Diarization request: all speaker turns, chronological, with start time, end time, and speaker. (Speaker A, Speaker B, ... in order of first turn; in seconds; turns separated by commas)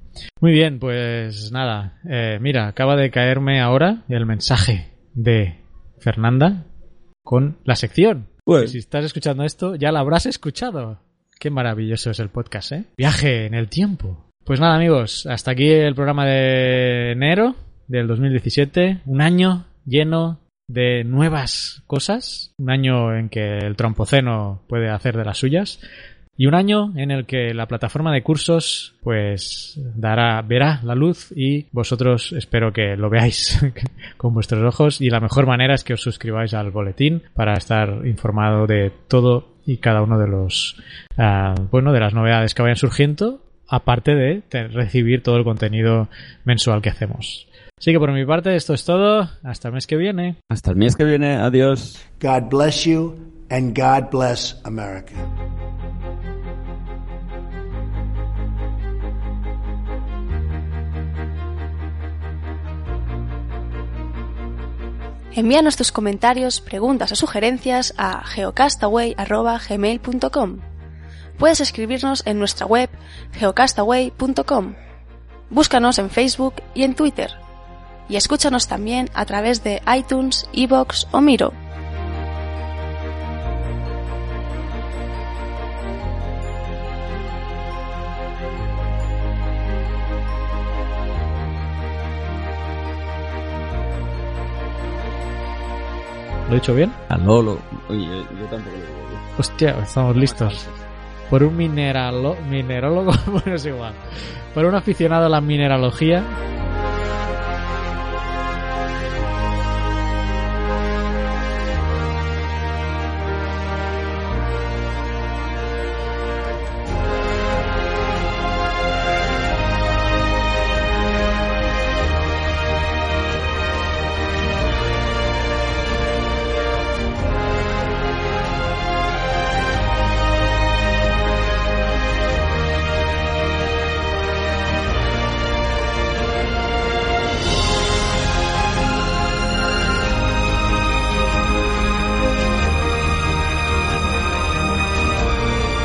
Speaker A: 0.4-6.6, Speaker A: 7.2-25.8, Speaker B: 8.4-8.8, Speaker A: 26.4-50.4, Speaker B: 50.5-52.0, Speaker C: 52.2-55.3, Speaker D: 65.3-70.6, Speaker D: 71.4-74.7, Speaker D: 75.5-77.4, Speaker D: 78.1-81.5, Speaker A: 96.5-97.0, Speaker B: 97.1-99.3, Speaker A: 99.4-100.6, Speaker B: 100.1-100.8, Speaker A: 101.3-104.0, Speaker A: 104.5-106.3